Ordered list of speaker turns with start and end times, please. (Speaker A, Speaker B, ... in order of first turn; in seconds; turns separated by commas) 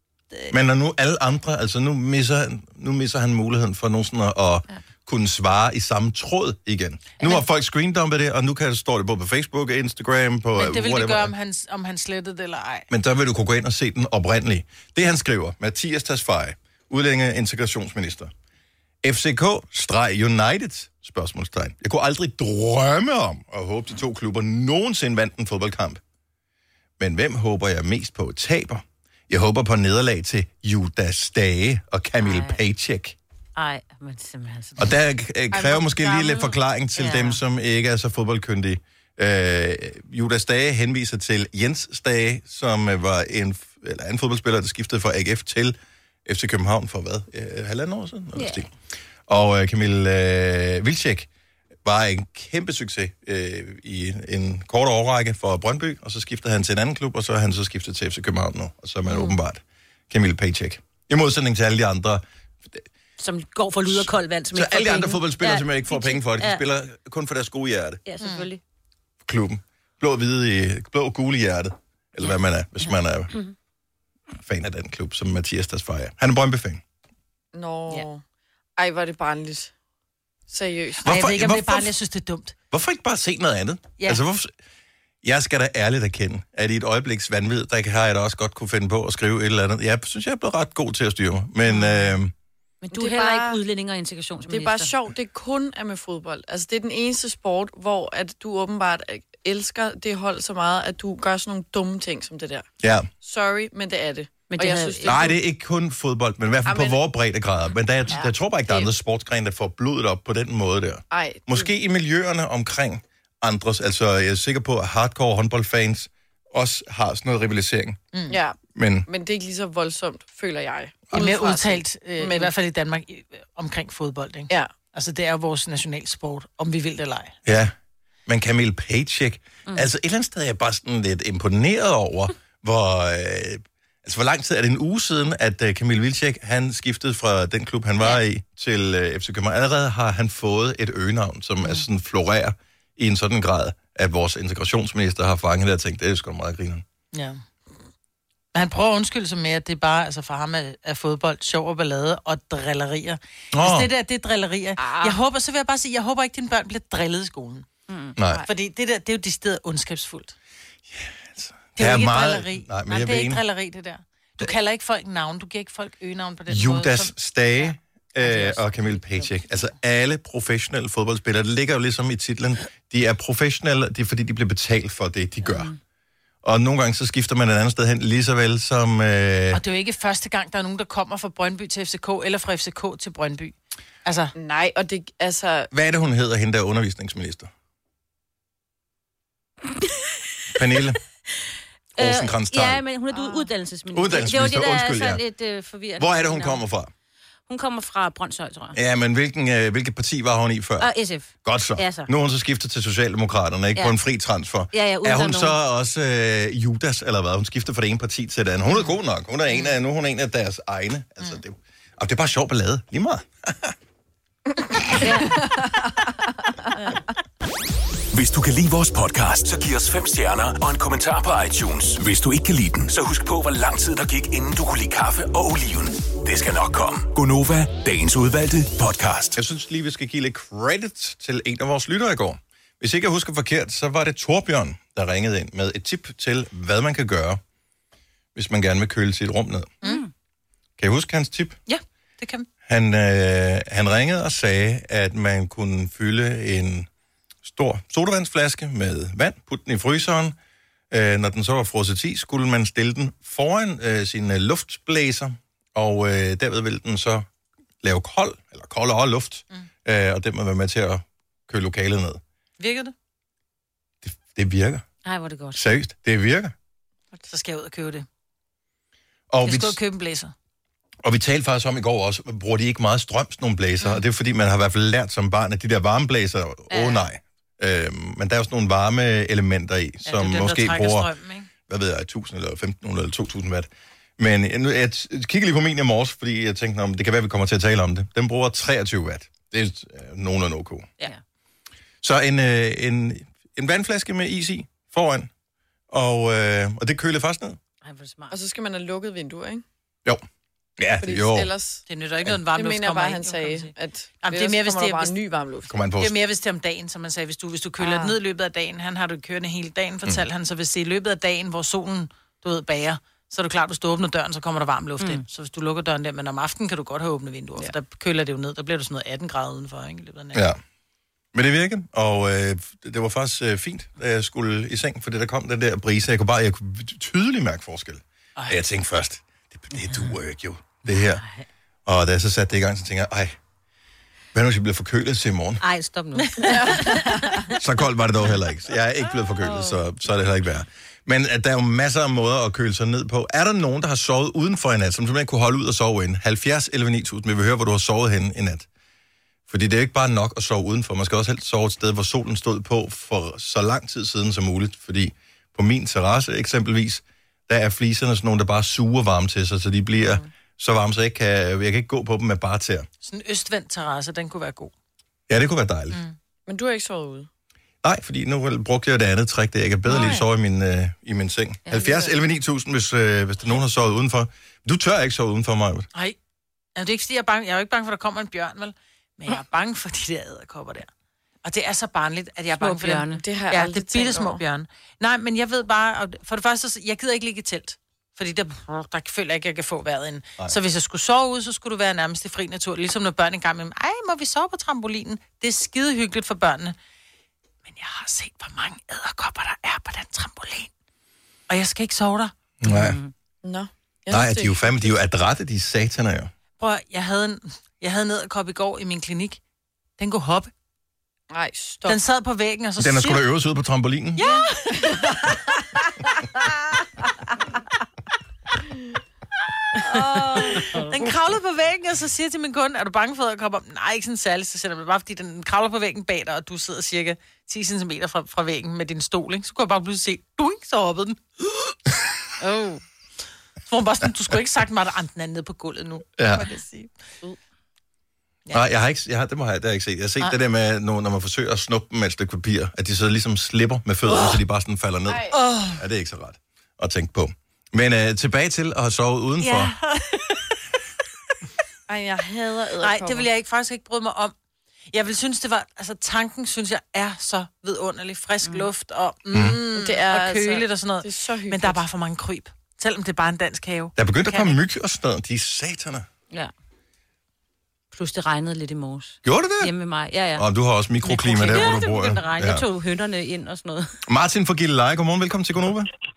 Speaker A: 0.5-11.3, Speaker B: 10.5-12.9, Speaker A: 12.9-18.3, Speaker A: 19.0-26.0, Speaker A: 27.0-33.2, Speaker C: 32.2-32.6, Speaker C: 33.5-34.9, Speaker A: 34.8-48.7, Speaker B: 35.5-36.5, Speaker C: 37.0-37.4, Speaker C: 48.3-48.6, Speaker A: 49.3-51.3, Speaker A: 51.8-62.8, Speaker C: 63.2-66.6, Speaker A: 63.9-68.0, Speaker C: 68.0-68.6, Speaker A: 69.2-73.3, Speaker A: 74.4-76.8, Speaker D: 77.5-78.2, Speaker D: 78.8-79.7, Speaker D: 80.5-81.2, Speaker B: 81.0-82.5, Speaker A: 81.0-81.9, Speaker A: 82.7-84.5, Speaker A: 85.2-92.3, Speaker C: 92.8-94.9, Speaker D: 92.9-93.6, Speaker D: 94.5-102.7, Speaker A: 102.8-103.1, Speaker D: 103.2-105.4, Speaker C: 104.5-105.3, Speaker A: 105.0-118.0, Speaker D: 106.7-107.0, Speaker D: 111.1-111.7, Speaker D: 118.3-122.5, Speaker A: 118.7-119.1, Speaker B: 121.1-127.4, Speaker A: 127.4-127.7, Speaker A: 128.3-146.8, Speaker B: 147.1-147.4, Speaker B: 148.5-157.7, Speaker A: 153.5-153.9, Speaker D: 154.8-155.2, Speaker C: 157.9-158.1, Speaker A: 158.2-158.4, Speaker B: 158.5-160.3, Speaker A: 160.9-163.4, Speaker B: 161.8-167.1, Speaker A: 166.5-175.7, Speaker B: 168.3-168.9, Speaker C: 175.4-175.7, Speaker A: 176.4-179.6, Speaker B: 179.5-184.3, Speaker D: 184.3-185.7, Speaker A: 185.7-187.5, Speaker A: 190.5-191.0, Speaker A: 192.0-192.8, Speaker C: 192.0-196.6, Speaker D: 193.1-193.5, Speaker A: 193.9-195.2, Speaker A: 196.0-196.9, Speaker C: 197.5-198.8, Speaker A: 198.7-200.9, Speaker C: 200.8-202.1, Speaker A: 201.4-213.7, Speaker C: 204.7-205.6, Speaker C: 215.0-215.5, Speaker D: 215.0-216.5, Speaker E: 218.1-229.4, Speaker A: 229.3-237.4, Speaker A: 238.3-239.7, Speaker C: 239.8-240.1, Speaker A: 240.8-241.6, Speaker B: 241.7-242.5, Speaker A: 242.7-246.9, Speaker A: 247.4-250.3, Speaker A: 250.9-257.2, Speaker A: 257.8-262.2, Speaker B: 262.6-262.9, Speaker A: 264.0-264.8, Speaker C: 265.0-265.6, Speaker A: 265.5-266.5, Speaker B: 267.2-268.1, Speaker A: 269.3-269.8, Speaker B: 269.4-270.3, Speaker A: 271.0-281.1, Speaker C: 276.7-277.0, Speaker B: 280.1-281.5, Speaker A: 281.7-290.9, Speaker A: 292.0-295.3, Speaker A: 295.9-297.6, Speaker C: 297.8-298.4, Speaker D: 298.3-299.6, Speaker A: 300.8-301.5, Speaker D: 301.0-301.8, Speaker B: 301.9-303.7, Speaker D: 302.5-305.7, Speaker B: 304.2-305.1, Speaker A: 305.7-306.1, Speaker B: 306.0-320.4, Speaker D: 307.8-308.1, Speaker A: 320.3-320.6, Speaker A: 321.3-331.2, Speaker C: 330.9-331.4, Speaker A: 331.9-333.4, Speaker A: 334.3-335.6, Speaker C: 335.6-337.4, Speaker B: 336.3-336.6, Speaker D: 336.5-337.5, Speaker A: 337.6-348.7, Speaker D: 339.4-339.8, Speaker A: 349.5-362.9, Speaker D: 360.0-360.3, Speaker B: 363.0-364.7, Speaker A: 365.3-366.0, Speaker D: 366.5-367.3, Speaker A: 367.8-375.9, Speaker D: 369.9-370.3, Speaker B: 376.8-380.9, Speaker B: 381.4-396.8, Speaker C: 382.6-383.2, Speaker D: 383.1-384.4, Speaker B: 397.6-400.7, Speaker B: 401.5-402.3, Speaker A: 402.6-403.0, Speaker C: 402.6-403.1, Speaker D: 403.4-405.0, Speaker A: 404.1-406.3, Speaker B: 406.6-409.4, Speaker B: 410.0-410.5, Speaker D: 411.3-412.0, Speaker B: 411.9-413.2, Speaker A: 412.8-414.2, Speaker B: 414.2-415.1, Speaker D: 414.8-415.2, Speaker D: 419.8-420.8, Speaker B: 420.1-431.2, Speaker C: 432.5-432.8, Speaker B: 433.7-436.9, Speaker A: 436.2-436.4, Speaker A: 438.5-449.7, Speaker D: 445.1-445.4, Speaker B: 445.3-445.8, Speaker B: 449.4-450.0, Speaker D: 451.9-453.3, Speaker B: 452.8-454.3, Speaker B: 454.9-464.5, Speaker A: 459.3-459.6, Speaker D: 459.7-461.8, Speaker A: 463.9-466.1, Speaker C: 467.9-470.4, Speaker A: 469.2-469.7, Speaker A: 470.4-472.6, Speaker C: 471.0-473.9, Speaker A: 474.1-475.9